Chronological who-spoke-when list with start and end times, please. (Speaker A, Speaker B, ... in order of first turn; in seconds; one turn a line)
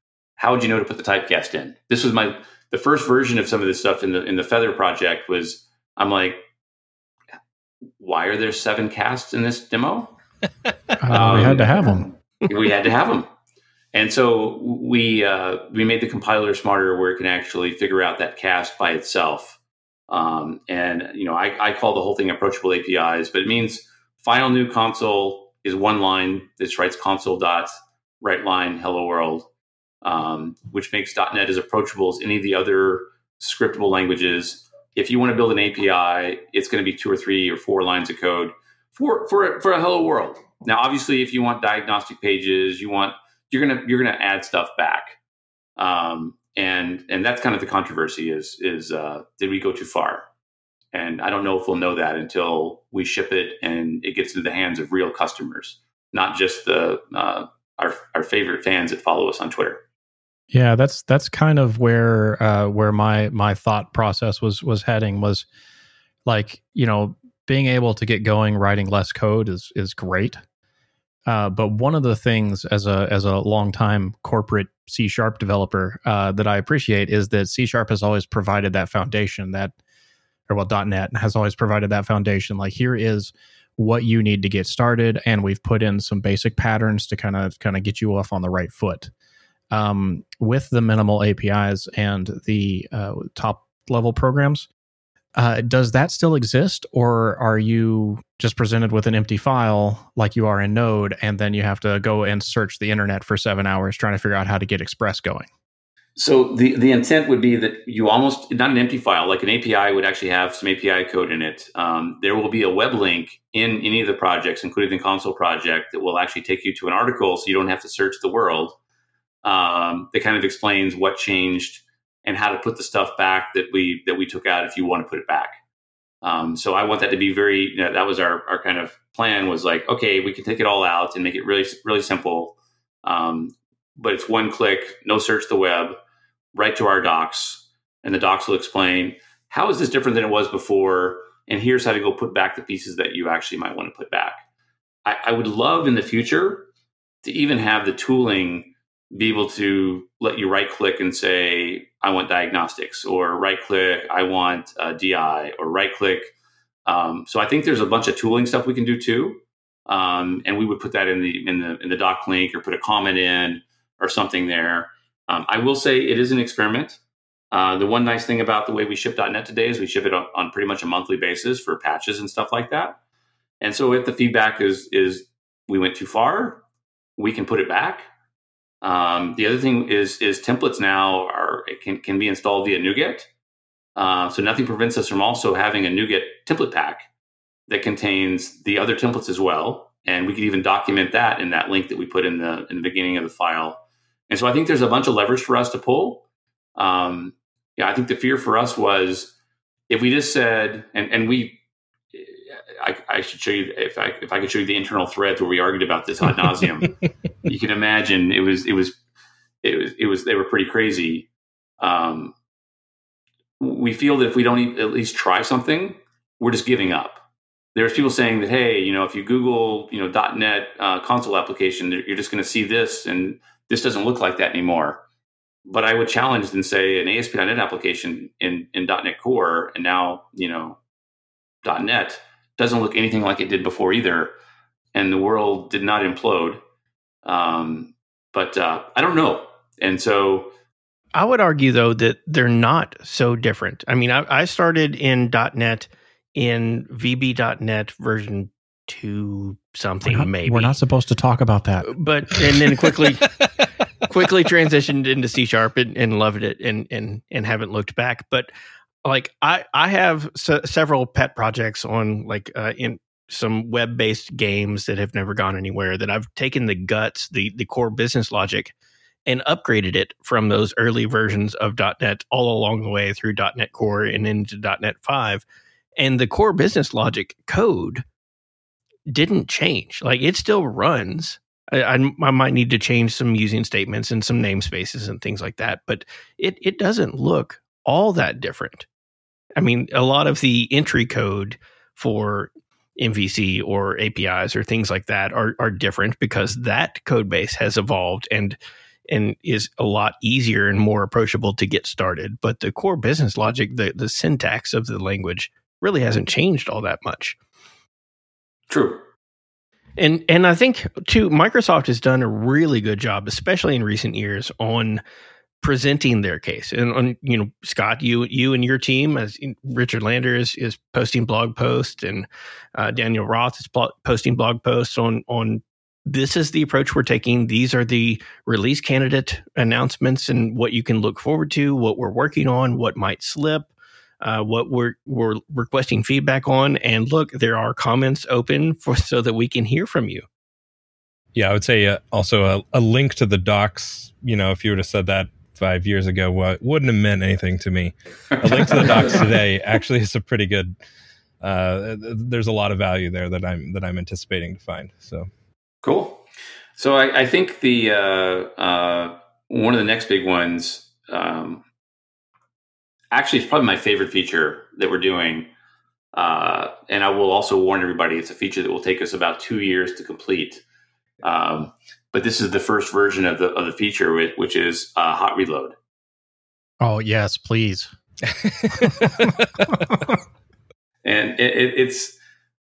Speaker A: 0.4-6.4
Speaker A: 8.0-10.2
Speaker B: 11.0-12.1
Speaker A: 11.1-11.9
Speaker A: 12.4-13.3
Speaker A: 13.9-19.6
Speaker A: 20.1-29.5
Speaker A: 30.0-45.2
Speaker A: 45.8-50.2
Speaker A: 50.9-59.8
Speaker B: 60.5-65.5
Speaker B: 66.2-70.4
Speaker B: 71.2-79.7
Speaker B: 80.5-89.1
Speaker B: 89.7-94.7
Speaker B: 95.3-105.5
Speaker A: 106.2-118.8
Speaker A: 119.4-125.6
Speaker A: 126.2-136.0
Speaker A: 136.5-144.4
Speaker A: 145.0-146.7
Speaker A: 147.2-156.3
Speaker A: 156.8-167.0
Speaker A: 167.5-173.0
Speaker A: 173.6-176.6
Speaker A: 177.2-178.1
Speaker A: 178.8-183.3
Speaker A: 183.9-187.1
Speaker A: 187.7-196.2
Speaker A: 196.8-199.3
Speaker A: 199.9-201.6
Speaker A: 202.1-209.0
Speaker A: 209.6-211.3
Speaker A: 211.8-212.3
Speaker A: 213.6-217.2
Speaker A: 217.7-225.0
Speaker A: 225.6-230.8
Speaker A: 231.6-234.3
Speaker A: 234.9-236.6
Speaker A: 237.2-240.5
Speaker C: 241.1-250.8
Speaker B: 250.0-251.9
Speaker C: 251.8-253.4
Speaker C: 254.0-258.5
Speaker C: 259.0-268.7
Speaker C: 269.2-275.4
Speaker C: 276.0-278.0
Speaker C: 279.1-288.9
Speaker C: 289.6-298.6
Speaker C: 299.1-307.4
Speaker A: 308.7-309.0
Speaker C: 310.0-315.0
Speaker C: 315.6-340.2
Speaker D: 341.3-350.7
Speaker A: 348.5-349.2
Speaker D: 351.4-355.3
Speaker A: 355.8-356.2
Speaker A: 356.8-361.6
Speaker A: 363.1-365.5
Speaker A: 366.1-370.6
Speaker A: 371.2-375.8
Speaker B: 376.8-377.9
Speaker B: 378.8-380.1
Speaker D: 378.8-379.2
Speaker A: 381.0-382.1